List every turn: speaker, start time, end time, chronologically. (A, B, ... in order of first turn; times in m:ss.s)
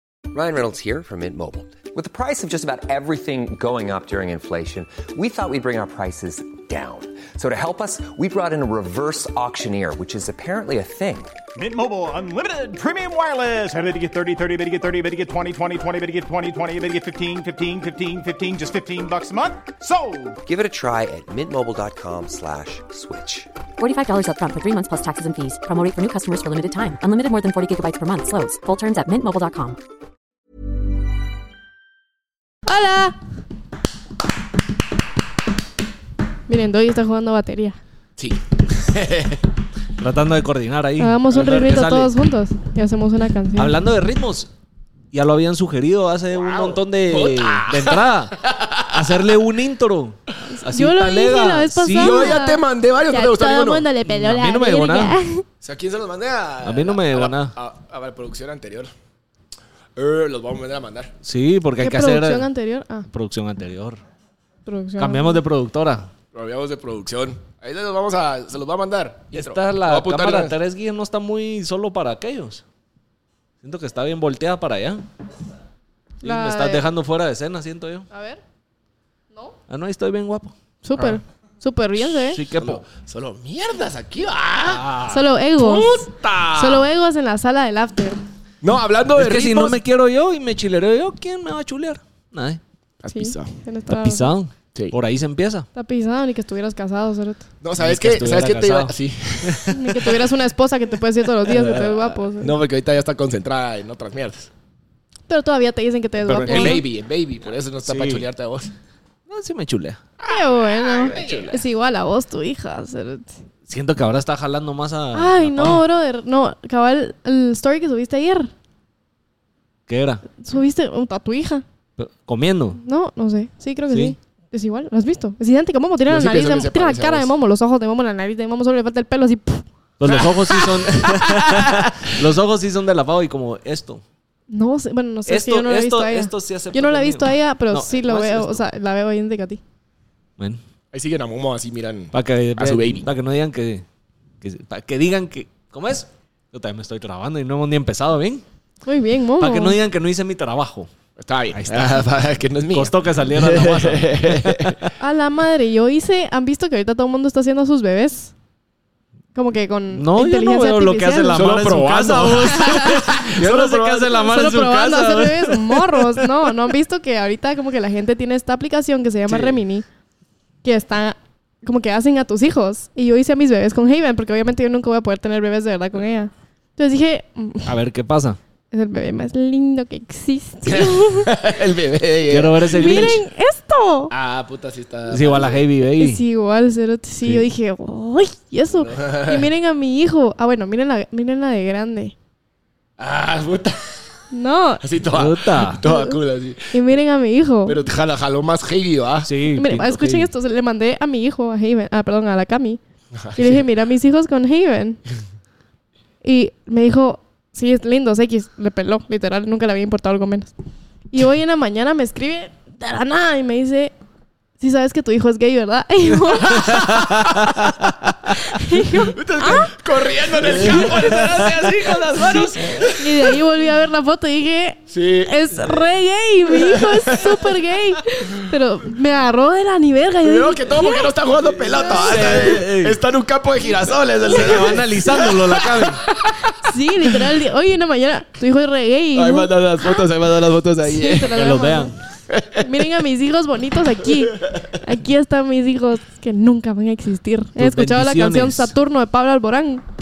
0:00.3-0:11.4 A
0:11.6-0:20.4 B
0:20.5-0:23.5 A
0:23.8-0:29.8 C
0:32.7-0:33.2 D
0:36.5-0:37.8 D
0:38.2-0:39.5 E
0:40.0-0:42.1 F
0:41.0-0:43.7 D
0:43.6-0:44.5 F
0:45.1-0:48.4 F
0:46.3-0:49.3 E
0:48.9-0:52.4 F
0:50.7-0:55.4 D
0:52.0-0:53.9 E
0:54.1-0:55.2 F
0:55.6-0:58.9 E
0:56.6-0:57.5 F
1:00.0-1:01.1 E
1:01.2-1:02.5 F
1:01.8-1:03.1 D
1:03.1-1:04.0 F
1:04.7-1:05.4 D
1:05.0-1:06.1 F
1:06.3-1:10.6 E
1:09.3-1:12.6 F
1:13.6-1:15.0 F
1:16.2-1:16.9 D
1:16.2-1:18.1 F
1:18.1-1:18.4 D
1:19.7-1:20.5 F
1:20.8-1:22.4 D
1:22.3-1:22.9 F
1:22.6-1:24.8 E
1:24.6-1:25.2 F
1:25.1-1:26.0 D
1:25.6-1:26.8 E
1:26.6-1:28.2 D
1:28.6-1:29.8 E
1:29.2-1:32.6 F
1:33.0-1:33.5 E
1:33.1-1:34.3 D
1:33.9-1:35.7 F
1:35.8-1:37.4 D
1:37.6-1:39.8 E
1:37.8-1:39.8 F
1:39.7-1:42.5 D
1:41.5-1:44.5 E
1:45.3-1:46.8 D
1:46.3-1:48.7 E
1:46.4-1:46.8 F
1:47.9-1:48.2 F
1:49.3-1:50.0 F
1:50.2-1:51.6 E
1:50.2-1:53.3 D
1:53.7-1:55.8 F
1:55.1-1:58.5 D
1:59.9-2:00.2 F
2:00.4-2:01.6 D
2:02.0-2:02.8 F
2:02.8-2:09.6 D
2:03.9-2:04.2 F
2:06.1-2:07.3 E
2:10.0-2:14.0 F
2:14.5-2:19.6 D
2:15.3-2:18.6 F
2:20.9-2:23.1 E
2:22.1-2:23.8 F
2:24.4-2:28.4 F
2:28.8-2:29.8 D
2:29.4-2:30.9 F
2:31.2-2:34.8 E
2:31.5-2:32.1 F
2:32.7-2:34.9 F
2:35.0-2:38.3 D
2:39.4-2:41.4 D
2:39.9-2:46.3 F
2:41.3-2:44.1 E
2:42.6-2:43.0 D
2:44.0-2:49.8 D
2:50.6-2:57.7 D
2:57.7-2:58.4 F
2:58.7-3:01.3 D
3:00.7-3:03.2 E
3:02.3-3:03.2 F
3:02.7-3:04.1 D
3:04.1-3:05.6 E
3:05.1-3:06.2 F
3:06.0-3:12.1 D
3:08.7-3:09.5 E
3:13.0-3:14.1 E
3:14.3-3:14.8 D
3:14.8-3:16.8 E
3:15.1-3:15.8 F
3:15.8-3:16.2 D
3:16.7-3:17.8 D
3:17.6-3:19.3 E
3:19.2-3:20.2 F
3:19.6-3:22.8 D
3:19.9-3:20.2 E
3:23.1-3:23.6 E
3:23.4-3:25.0 D
3:26.2-3:30.5 D
3:31.1-3:33.9 D
3:34.6-3:36.8 D
3:36.6-3:37.5 E
3:36.7-3:37.7 F
3:38.5-3:41.4 D
3:38.9-3:43.4 E
3:40.7-3:41.0 F
3:42.3-3:52.4 D
3:44.9-3:45.8 E
3:46.5-3:47.4 E
3:50.2-3:56.5 E
3:51.9-3:53.0 F
3:54.3-3:56.0 F
3:56.4-4:00.1 D
3:59.2-4:01.3 E
4:00.8-4:01.9 D
4:01.3-4:01.9 F
4:02.3-4:02.9 E
4:02.6-4:09.8 D
4:07.6-4:08.7 F